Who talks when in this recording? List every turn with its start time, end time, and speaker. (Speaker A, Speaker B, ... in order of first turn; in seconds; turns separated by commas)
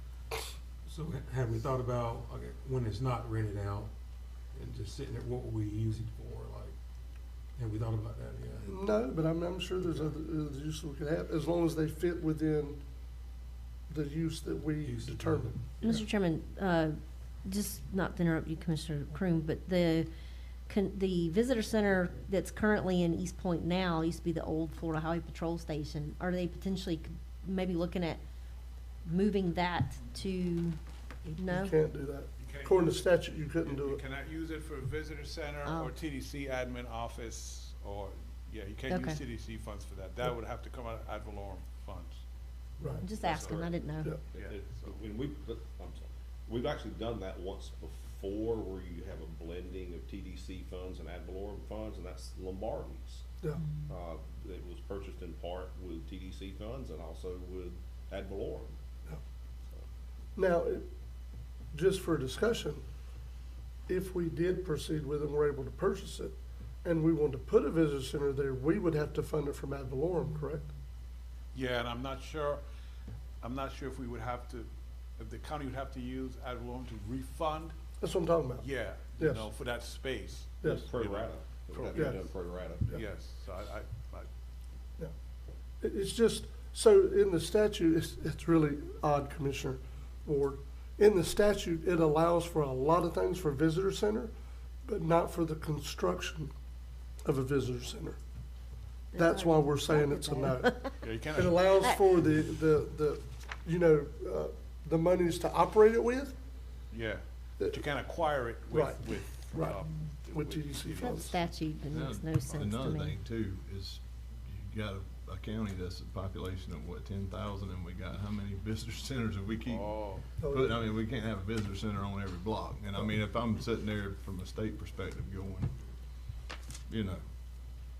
Speaker A: 0.8-3.9, Speaker A: 4.5-6.8, Speaker A: 7.5-8.9, Speaker B: 8.7-12.8, Speaker A: 9.8-10.1, Speaker B: 13.9-15.6, Speaker A: 14.8-16.1, Speaker C: 15.8-20.1, Speaker C: 20.6-28.2, Speaker C: 29.0-31.7, Speaker B: 31.4-34.0, Speaker D: 32.4-42.2, Speaker C: 35.6-36.0, Speaker C: 38.9-39.2, Speaker B: 42.8-43.0, Speaker C: 43.0-44.1, Speaker D: 43.2-43.7, Speaker E: 44.2-53.2, Speaker E: 53.9-58.8, Speaker B: 60.4-60.9, Speaker B: 61.7-62.8, Speaker B: 63.9-70.7, Speaker D: 71.5-72.6, Speaker D: 73.4-77.8, Speaker B: 78.0-79.5, Speaker D: 78.6-82.1, Speaker E: 80.6-83.0, Speaker B: 81.9-82.2, Speaker D: 83.0-84.3, Speaker B: 85.8-94.3, Speaker B: 94.8-96.5, Speaker B: 97.2-98.2, Speaker C: 99.1-101.0, Speaker B: 99.1-106.3, Speaker D: 101.0-101.8, Speaker D: 106.9-111.4, Speaker B: 108.7-111.3, Speaker C: 111.0-113.1, Speaker F: 111.9-125.7, Speaker D: 119.7-120.3, Speaker B: 120.4-120.8, Speaker F: 126.9-127.2